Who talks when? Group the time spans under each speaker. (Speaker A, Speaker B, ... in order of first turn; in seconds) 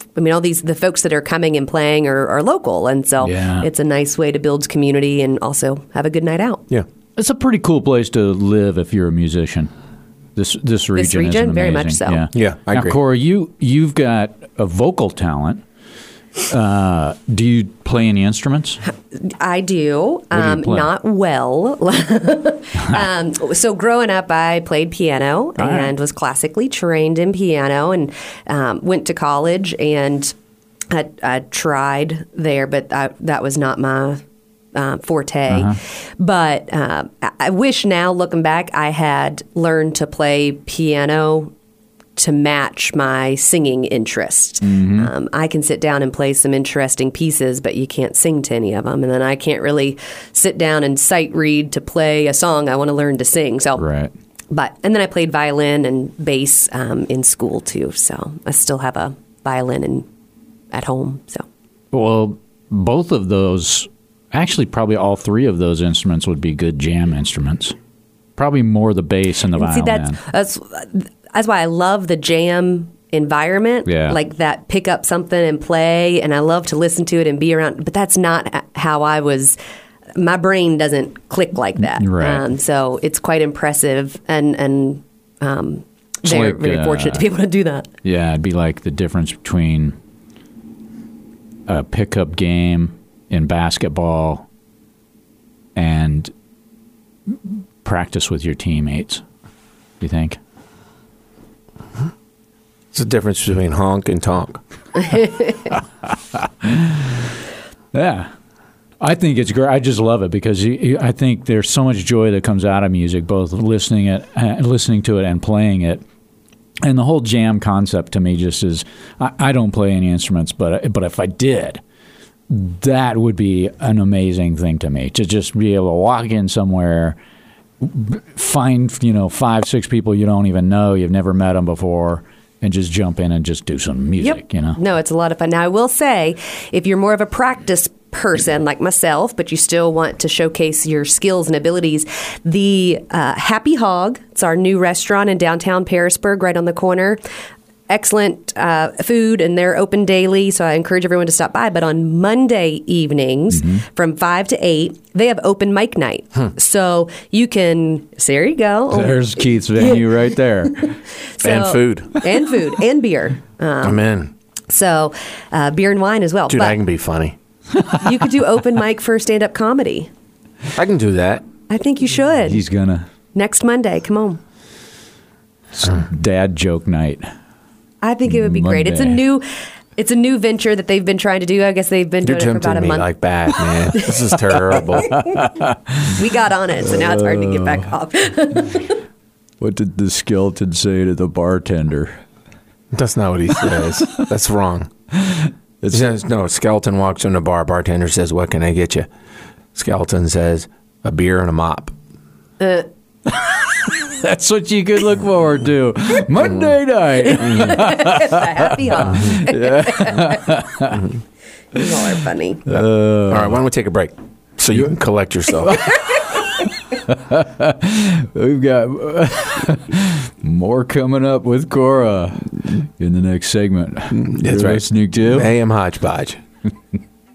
Speaker A: 0.1-6.6, 11.0-12.2, 19.1-30.3, 30.9-34.2, 34.7-41.5, 42.1-53.8, 54.5-60.0, 60.7-61.5, 69.5-79.6, 80.2-87.9, 134.2-147.2, 147.9-160.1, 161.3-164.0, 164.7-166.8, 167.9-170.1, 171.7-172.6, 173.3-174.4, 178.0-179.4, 180.0-183.1, 186.1-188.9, 202.6-202.9, 207.5-210.4, 211.7-212.6
Speaker B: 3.2-3.7, 7.2-9.7, 10.3-15.6, 16.4-18.8, 20.3-20.9, 25.6-25.9, 35.5-35.8, 44.6-45.1, 53.8-54.1, 61.9-67.8, 68.4-70.2, 73.8-74.2, 81.8-82.5, 86.2-87.2, 88.0-90.0, 91.7-94.5, 95.8-96.3, 97.8-99.2, 100.0-100.4, 106.4-107.3, 107.9-108.3, 109.0-116.0, 116.8-121.8, 122.5-127.2, 127.8-134.8, 153.5-153.8, 158.9-160.9, 172.4-173.0, 175.7-177.2, 178.3-179.2, 185.0-186.1, 186.9-187.8, 189.6-192.2, 193.8-194.2, 195.2-196.1, 203.3-211.0, 212.7-213.6, 215.7-225.5
Speaker C: 12.3-13.0, 102.9-104.6, 161.4-162.1, 163.8-164.3, 166.5-167.3, 170.8-171.4, 182.2-185.2, 192.9-194.9, 195.9-199.1, 199.8-201.9, 212.7-215.9, 224.1-226.4